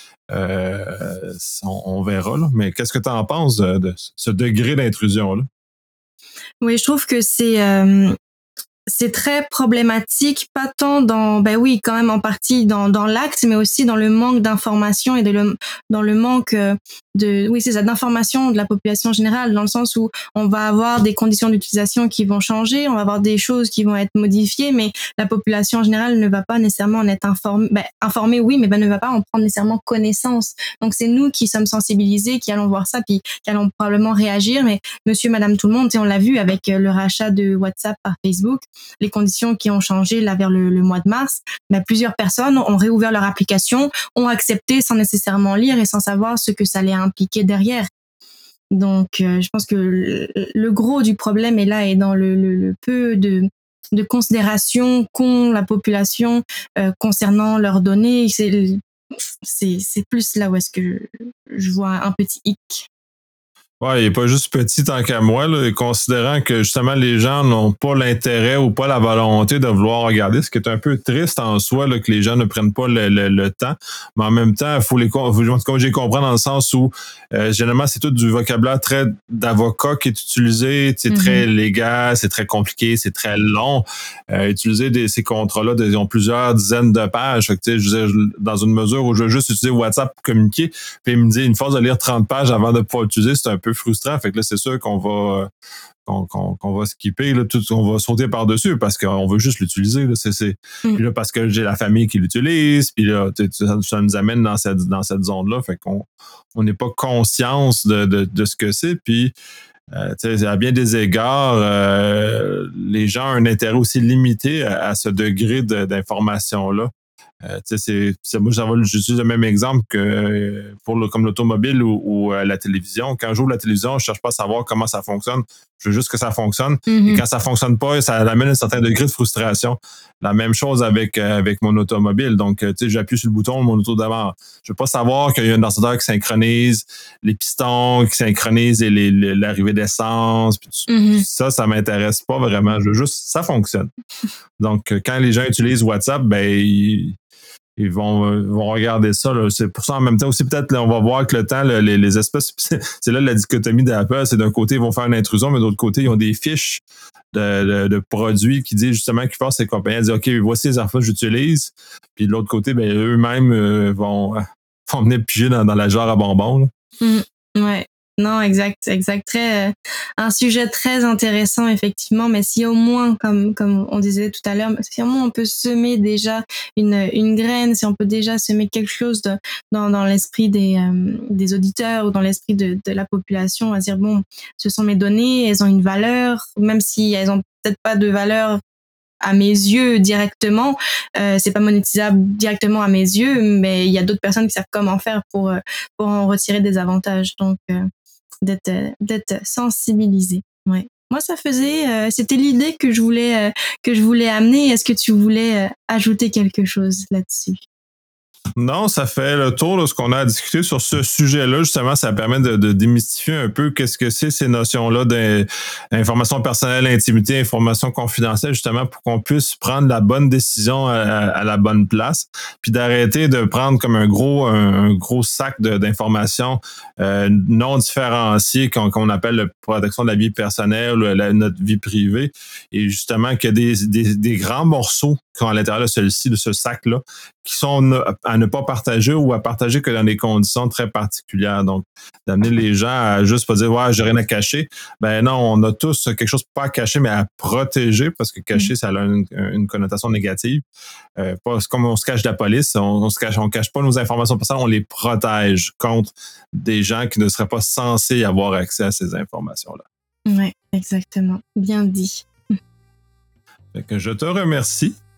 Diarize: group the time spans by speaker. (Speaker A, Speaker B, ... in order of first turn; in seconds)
Speaker A: 0.3-5.5, 63.8-95.5, 96.0-109.3, 109.9-116.9, 117.4-143.9, 144.6-147.2, 147.8-156.8, 157.3-166.7, 208.6-250.6, 251.2-259.8, 263.7-265.0
Speaker B: 6.6-8.2, 8.9-47.9, 48.7-58.8, 59.4-62.9, 81.1-81.5, 126.9-127.2, 140.9-141.2, 167.0-188.6, 189.2-197.9, 198.4-207.6, 260.3-262.6